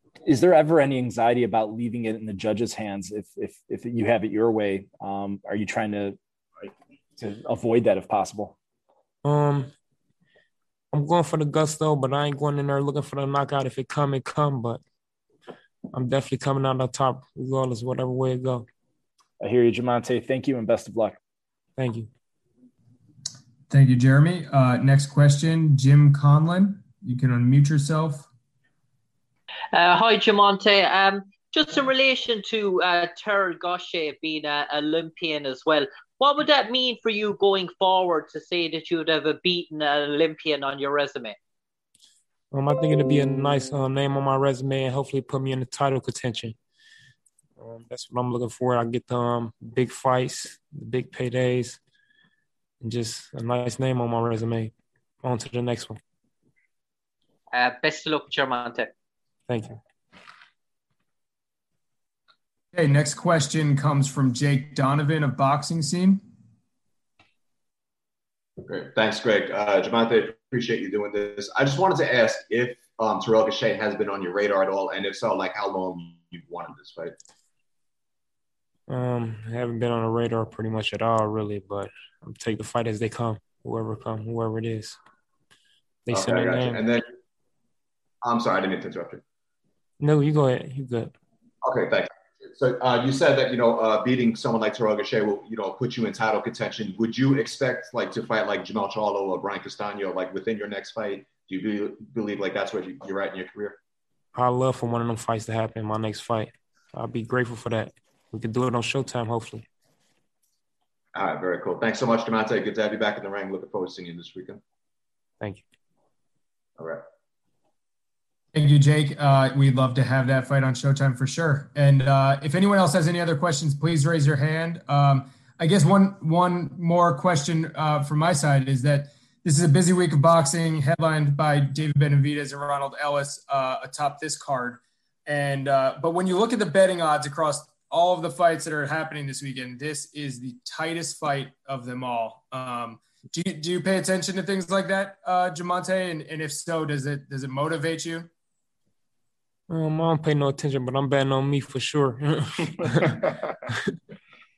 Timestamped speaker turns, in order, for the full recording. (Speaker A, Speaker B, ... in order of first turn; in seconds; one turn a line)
Speaker A: 0.2-8.6
Speaker B: 9.2-9.7
Speaker B: 10.9-14.8
Speaker B: 15.9-18.7
Speaker A: 19.4-21.2
Speaker B: 21.8-22.1
Speaker C: 23.7-28.3
Speaker D: 29.7-41.4
Speaker B: 42.5-46.6
Speaker B: 47.6-51.8
Speaker B: 52.8-54.7
Speaker B: 55.2-56.0
Speaker D: 57.5-58.9
Speaker B: 59.5-59.8
Speaker C: 62.7-66.2
Speaker E: 68.7-77.2
Speaker B: 78.9-85.0
Speaker B: 86.1-86.9
Speaker E: 86.1-87.0
Speaker E: 88.2-89.2
Speaker B: 90.0-91.1
Speaker E: 91.6-103.8
Speaker B: 104.3-109.7
Speaker E: 111.2-114.6
Speaker C: 118.5-148.3
Speaker B: 149.7-153.2